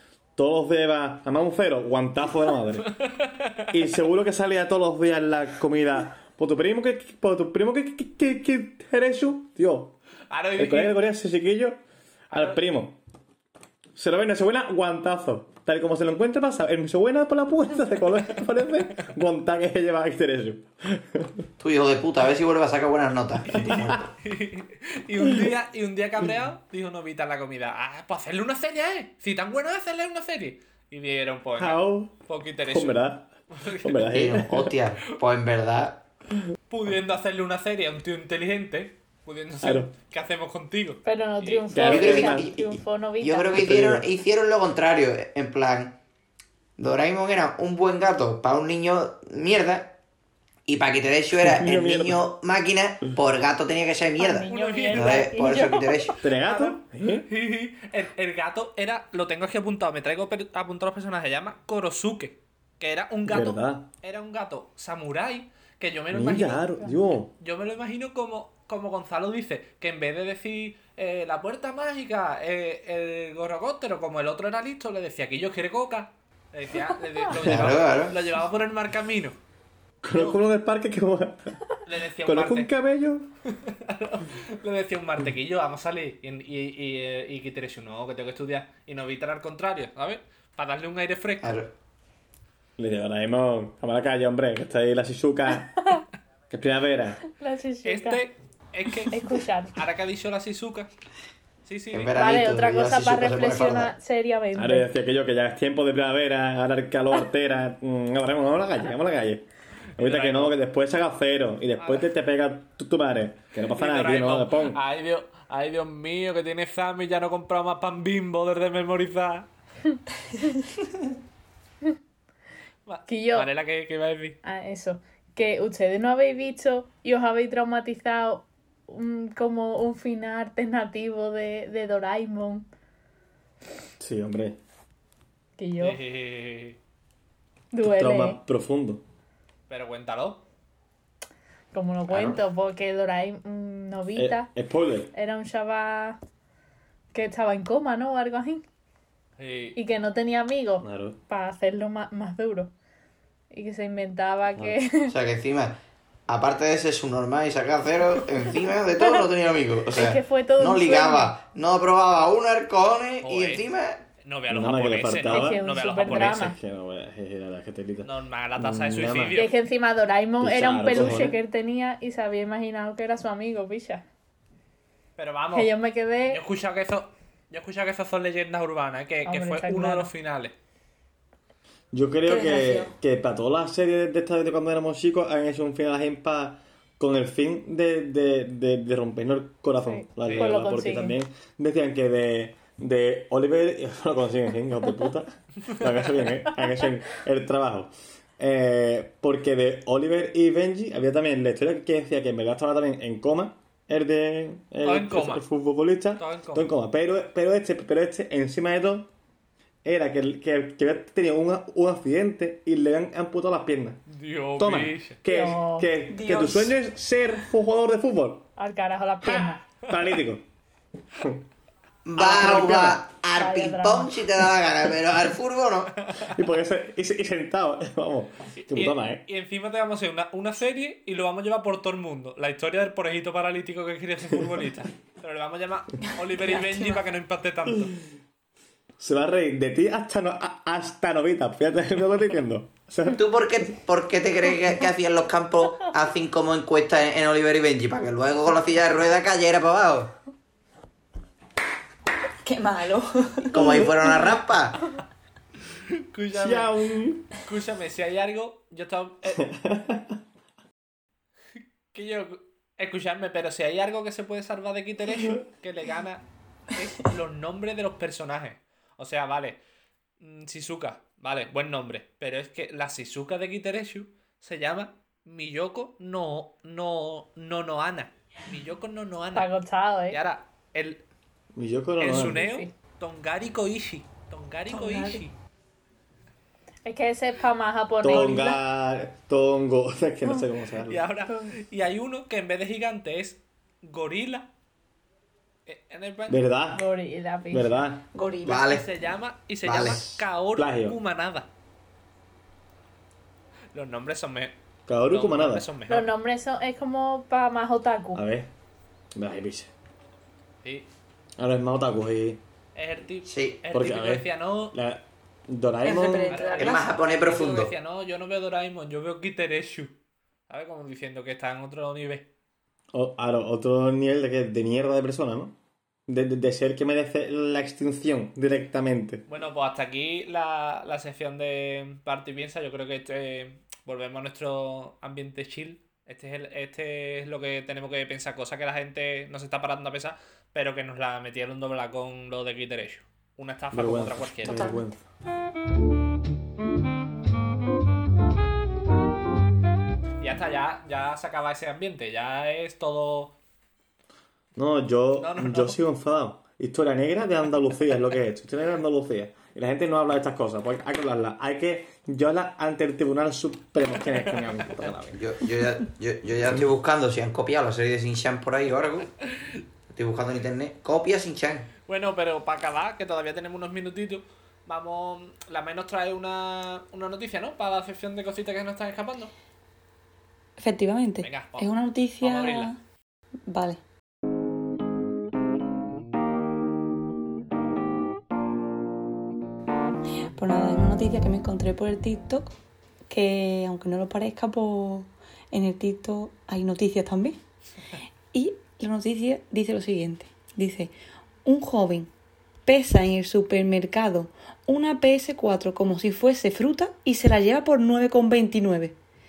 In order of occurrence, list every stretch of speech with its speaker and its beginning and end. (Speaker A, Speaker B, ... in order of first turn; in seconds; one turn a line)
Speaker A: 0.4-3.0
Speaker B: 3.0-3.6
Speaker A: 3.7-9.9
Speaker B: 10.3-11.0
Speaker A: 10.6-11.8
Speaker B: 12.3-12.6
Speaker A: 12.3-13.0
Speaker A: 14.0-21.4
Speaker C: 21.6-24.1
Speaker B: 23.5-34.1
Speaker A: 31.6-34.8
Speaker C: 34.1-36.0
Speaker B: 36.7-41.7
Speaker A: 39.6-39.9
Speaker D: 41.0-43.6
Speaker A: 41.7-42.5
Speaker C: 41.8-46.0
Speaker A: 43.5-44.1
Speaker C: 46.8-50.0
Speaker C: 50.7-56.2
Speaker A: 51.4-52.2
Speaker D: 54.2-56.2
Speaker B: 54.4-55.3
Speaker A: 56.2-57.3
Speaker B: 56.5-66.7
Speaker A: 63.3-63.9
Speaker A: 66.1-67.3
Speaker B: 67.4-79.4
Speaker C: 77.3-78.2
Speaker A: 80.0-81.6
Speaker B: 80.1-80.4
Speaker B: 81.8-82.7
Speaker A: 82.2-83.3
Speaker B: 83.5-91.6
Speaker C: 91.4-91.7
Speaker A: 92.8-95.9
Speaker A: 96.5-97.2
Speaker D: 97.3-98.2
Speaker B: 97.8-99.2
Speaker D: 99.1-99.8
Speaker B: 99.7-100.9
Speaker B: 101.7-102.3
Speaker C: 101.9-103.9
Speaker D: 102.1-104.9
Speaker A: 104.5-109.5
Speaker B: 110.0-110.6
Speaker A: 110.0-114.8
Speaker B: 111.8-112.1
Speaker B: 113.7-119.5
Speaker B: 122.9-124.4
Speaker D: 123.1-123.5
Speaker D: 124.4-132.7
Speaker A: 134.0-134.6
Speaker D: 135.6-136.0
Speaker B: 135.8-136.8
Speaker D: 137.7-138.4
Speaker A: 137.8-139.0
Speaker B: 139.7-140.4
Speaker D: 141.7-144.5
Speaker C: 142.1-142.4
Speaker A: 144.2-145.1
Speaker D: 145.1-146.2
Speaker D: 147.1-148.6
Speaker B: 149.4-149.8
Speaker D: 149.8-152.7
Speaker A: 150.8-151.2
Speaker D: 153.5-155.1
Speaker C: 155.1-164.0
Speaker D: 159.0-159.2
Speaker D: 159.9-161.3
Speaker B: 163.2-163.7
Speaker B: 164.2-166.5
Speaker A: 164.5-169.4
Speaker D: 165.3-166.6
Speaker B: 168.0-169.5
Speaker D: 169.3-174.1
Speaker A: 170.4-171.4
Speaker B: 175.2-175.7
Speaker D: 175.5-176.4
Speaker B: 176.3-180.6
Speaker D: 179.3-180.1
Speaker A: 181.9-209.1
Speaker E: 182.3-182.9
Speaker D: 189.8-191.2
Speaker B: 190.2-190.5
Speaker B: 204.8-205.4
Speaker B: 206.2-206.7
Speaker A: 209.8-214.0
Speaker B: 214.1-215.2
Speaker A: 214.6-218.5
Speaker D: 215.3-215.9
Speaker E: 216.1-216.8
Speaker D: 218.6-219.6
Speaker A: 219.2-220.4
Speaker C: 222.1-225.9
Speaker A: 222.2-223.0
Speaker B: 222.4-222.9
Speaker D: 223.3-224.1
Speaker B: 226.0-226.3
Speaker A: 226.2-229.2
Speaker B: 228.7-238.0
Speaker E: 236.4-237.1
Speaker A: 239.0-243.2
Speaker C: 243.1-250.1
Speaker E: 252.4-254.1
Speaker C: 253.5-254.9
Speaker A: 253.6-253.9
Speaker B: 255.9-256.8
Speaker A: 256.3-257.3
Speaker B: 257.3-259.5
Speaker A: 259.4-260.2
Speaker B: 261.6-269.6
Speaker B: 270.2-279.5
Speaker D: 279.4-280.2
Speaker B: 280.1-281.0
Speaker A: 281.6-282.4
Speaker B: 282.0-285.3
Speaker D: 282.1-282.7
Speaker E: 284.7-285.2
Speaker D: 286.9-288.5
Speaker A: 288.0-291.1
Speaker E: 288.1-288.6
Speaker B: 290.9-294.5
Speaker D: 291.3-291.5
Speaker B: 295.7-296.4
Speaker A: 296.3-296.9
Speaker D: 296.7-297.8
Speaker A: 297.5-298.1
Speaker E: 298.1-298.8
Speaker C: 298.4-298.9
Speaker B: 298.5-301.5
Speaker C: 299.6-300.2
Speaker A: 300.6-301.0
Speaker B: 303.7-304.6
Speaker A: 304.9-305.7
Speaker B: 305.1-306.1
Speaker D: 305.9-308.2
Speaker A: 308.1-308.5
Speaker A: 309.1-309.7
Speaker B: 310.6-310.9
Speaker A: 311.4-312.4
Speaker B: 312.8-314.8
Speaker C: 313.3-313.6
Speaker A: 313.7-316.4
Speaker E: 315.8-316.9
Speaker B: 316.3-319.9
Speaker C: 316.5-317.7
Speaker B: 320.5-322.3
Speaker A: 322.9-325.6
Speaker A: 326.1-329.2
Speaker B: 329.3-344.8
Speaker A: 343.7-345.0
Speaker E: 344.4-344.9
Speaker B: 350.2-353.4
Speaker A: 354.6-365.2
Speaker B: 355.1-355.8
Speaker B: 364.1-364.7
Speaker C: 365.1-369.1
Speaker C: 369.9-371.7
Speaker B: 371.9-379.3
Speaker E: 380.6-382.8
Speaker B: 381.2-381.7
Speaker B: 382.2-382.7
Speaker E: 383.5-383.8
Speaker E: 390.4-392.5
Speaker E: 393.1-397.4
Speaker E: 398.3-400.9
Speaker E: 401.4-402.1
Speaker E: 402.6-409.0